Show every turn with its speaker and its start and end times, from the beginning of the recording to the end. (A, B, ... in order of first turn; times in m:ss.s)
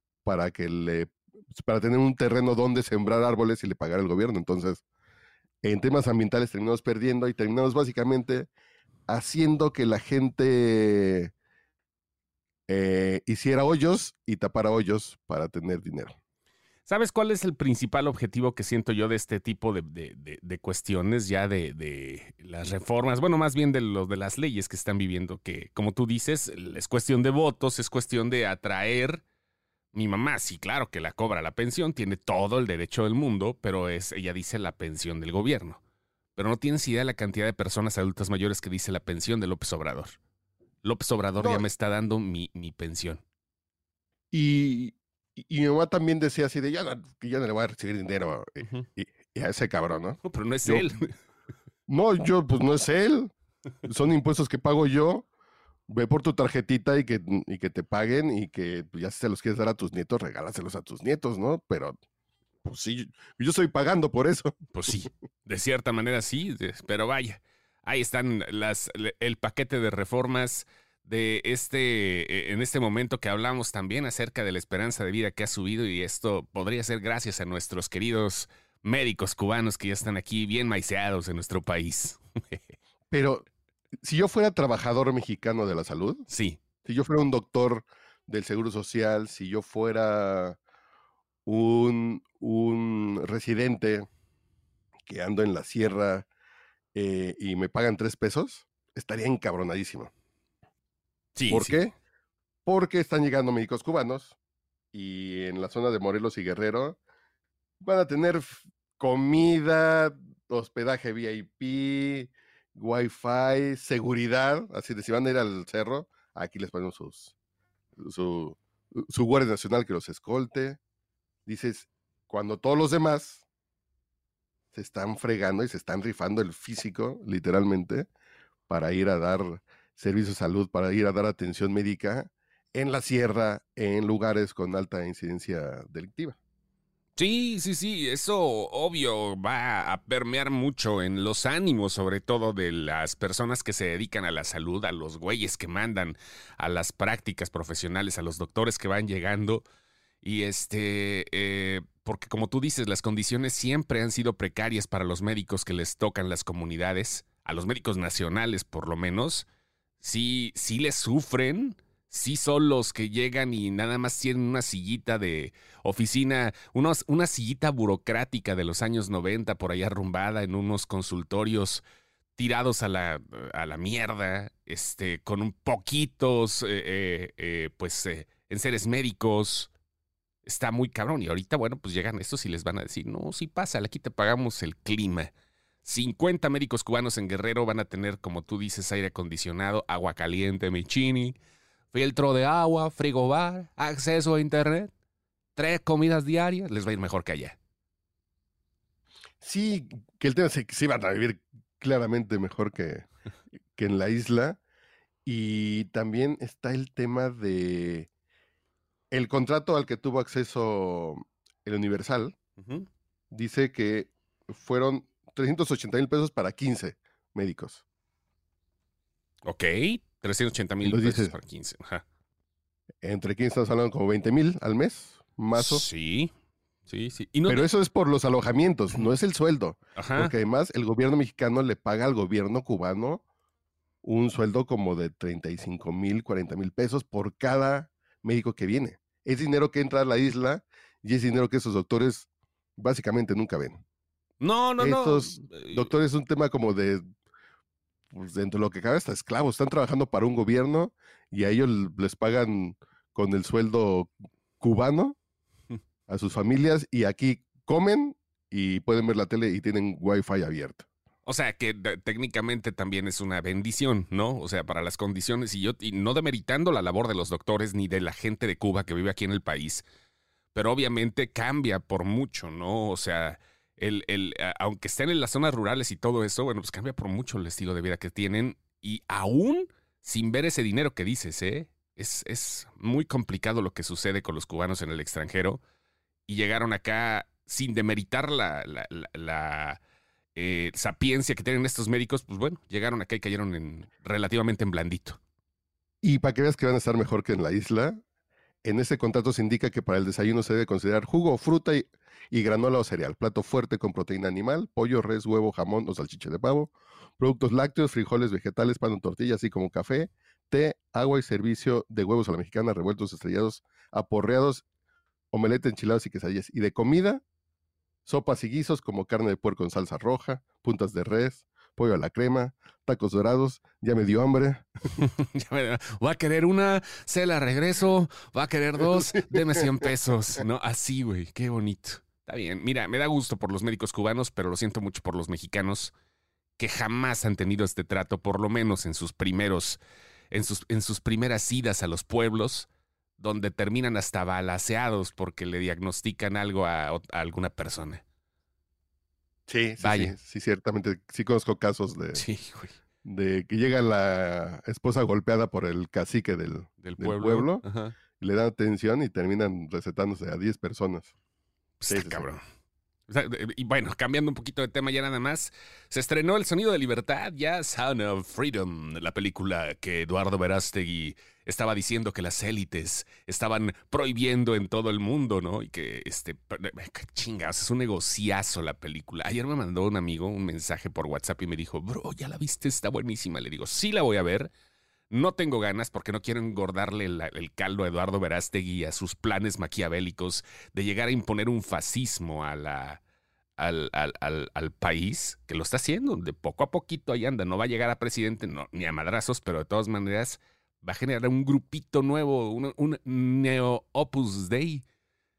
0:00.2-0:04.8 A
0:05.6-0:08.5 A
0:09.1-0:11.3 A
0:12.7-0:16.2 A
0:16.9-0:29.2 B
0:29.9-0:35.8 B
0:36.4-0:40.2 B
0:40.8-0:43.2 B
0:41.4-0:41.7 A
0:44.3-0:50.9 A
0:50.2-0:51.2 B
0:51.9-0:53.3 A
0:53.8-0:55.3 A
0:55.9-1:02.0 A
1:02.6-1:04.6 A
1:04.7-1:22.6 B
1:23.1-1:23.4 A
1:24.0-1:26.3 A
1:26.3-1:26.6 B
1:26.8-1:30.6 A
1:31.5-1:34.1 A
1:35.1-1:36.3 A
1:36.9-1:40.1 A
1:41.4-1:41.8 B
1:41.5-1:41.9 A
1:42.7-1:44.4 A
1:44.9-1:47.0 A
1:47.8-1:57.3 A
1:58.0-2:00.8 A
2:01.5-2:03.4 A
2:04.7-2:08.1 A
2:08.7-2:16.4 A
2:17.2-2:29.6 B
2:30.2-2:39.5 B
2:40.0-2:51.8 B
2:52.4-2:59.7 B
3:00.5-3:05.3 B
3:05.8-3:11.4 B
3:11.9-3:14.9 B
3:15.6-3:17.6 B
3:19.4-3:23.1 A
3:23.8-3:24.6 A
3:25.3-3:28.1 A
3:29.1-3:32.4 A
3:32.6-3:32.9 B
3:33.3-3:37.8 A
3:39.4-3:42.0 B
3:40.8-3:41.3 A
3:43.0-3:45.8 A
3:45.5-3:46.3 B
3:46.9-3:47.7 B
3:47.5-3:53.2 A
3:50.0-3:50.3 B
3:54.0-4:02.3 A
4:02.8-4:03.8 A
4:04.4-4:05.9 B
4:04.8-4:07.0 A
4:08.1-4:15.2 A
4:16.1-4:20.9 A
4:21.2-4:29.8 B
4:30.5-4:45.6 B
4:46.3-4:49.8 B
4:50.4-4:55.2 B
4:56.0-4:58.0 A
4:58.6-5:14.6 A
5:15.3-5:17.2 A
5:18.1-5:24.7 A
5:25.0-5:35.9 B
5:28.8-5:29.9 A
5:36.6-5:42.7 B
5:43.2-5:48.0 B
5:49.5-5:52.2 A
5:49.8-5:50.1 B
5:52.2-5:52.8 B
5:53.0-5:57.6 A
5:56.8-5:58.0 B
5:58.2-6:01.1 A
6:01.8-6:02.4 B
6:01.9-6:02.3 A
6:03.1-6:24.5 B
6:25.1-6:33.0 B
6:33.6-6:44.8 B